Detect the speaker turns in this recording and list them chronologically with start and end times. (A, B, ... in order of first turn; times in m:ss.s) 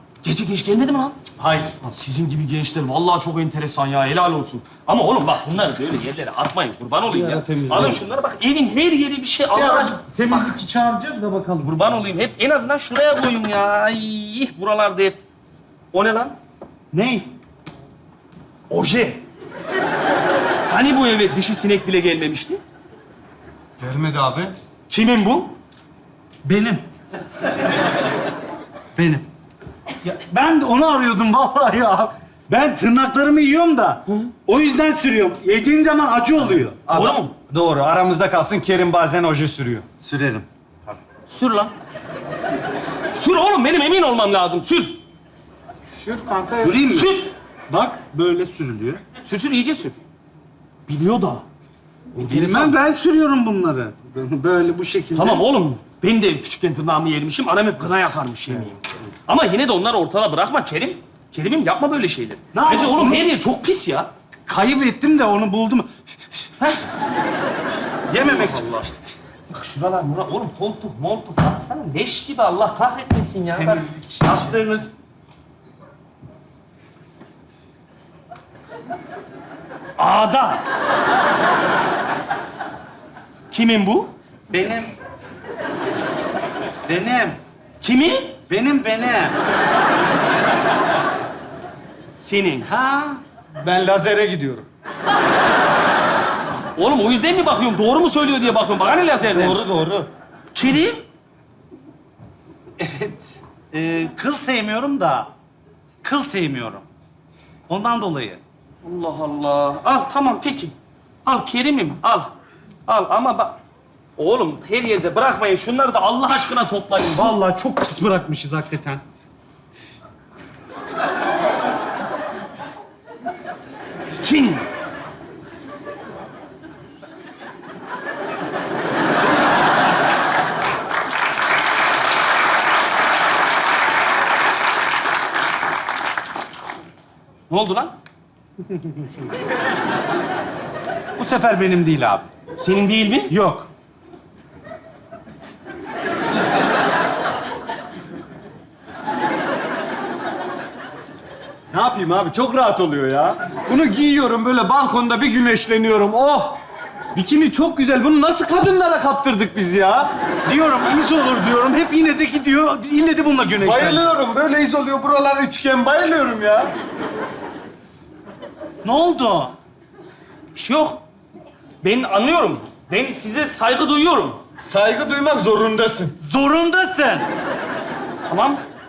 0:00.2-0:01.2 A
0:01.4-0:01.7 B
0:01.8-0:10.0 A
0:07.1-0:08.0 C
0:09.6-0:11.8 C
0:11.6-0:15.2 A
0:15.9-0:16.4 A
0:16.9-0:17.3 B
0:18.7-0:19.2 A
0:20.7-0:22.6 A
0:23.8-0:24.5 C
0:24.9-0:25.5 A
0:26.4-0:26.9 B
0:29.0-0:29.2 B
0:30.0-0:36.8 B
0:36.9-0:39.9 C
0:36.9-0:37.3 A
0:40.0-0:40.5 B
0:41.3-0:41.7 A
0:43.1-0:45.0 A
0:46.0-0:46.8 C
0:46.6-0:47.1 B
0:46.9-0:47.3 A
0:47.7-0:49.0 B
0:49.2-0:50.0 A
0:50.9-0:51.4 A
0:52.2-0:52.8 A
0:52.2-0:55.4 B
0:55.2-1:04.1 A
1:02.5-1:03.3 B
1:04.5-1:06.5 B
1:08.1-1:08.8 B
1:08.2-1:08.9 A
1:09.5-1:14.5 A
1:13.5-1:14.9 B
1:20.0-1:20.6 A
1:23.5-1:24.1 A
1:24.5-1:24.9 B
1:26.9-1:27.4 B
1:27.8-1:28.4 A
1:28.5-1:29.4 B
1:32.2-1:32.7 A
1:32.7-1:33.2 B
1:33.6-1:34.7 C
1:36.8-1:39.6 A
1:39.3-1:40.1 C
1:40.5-1:41.0 A
1:42.8-1:45.3 B
1:46.0-1:46.9 B
1:47.7-1:48.4 B
1:48.8-1:52.3 A
1:52.9-1:53.6 A
1:54.2-1:57.3 A
1:57.2-1:59.0 B
2:04.1-2:04.7 A
2:17.5-2:17.9 A
2:21.2-2:22.3 B
2:22.6-2:23.3 A
2:23.3-2:23.7 B
2:31.7-2:36.6 C
2:37.1-2:40.1 C
2:40.5-2:44.1 B
2:43.6-2:46.7 C
2:48.8-2:49.6 B
2:50.6-2:51.0 A
2:51.8-2:54.4 A
2:54.6-2:56.2 C
2:56.2-2:57.3 B
2:58.2-2:58.6 A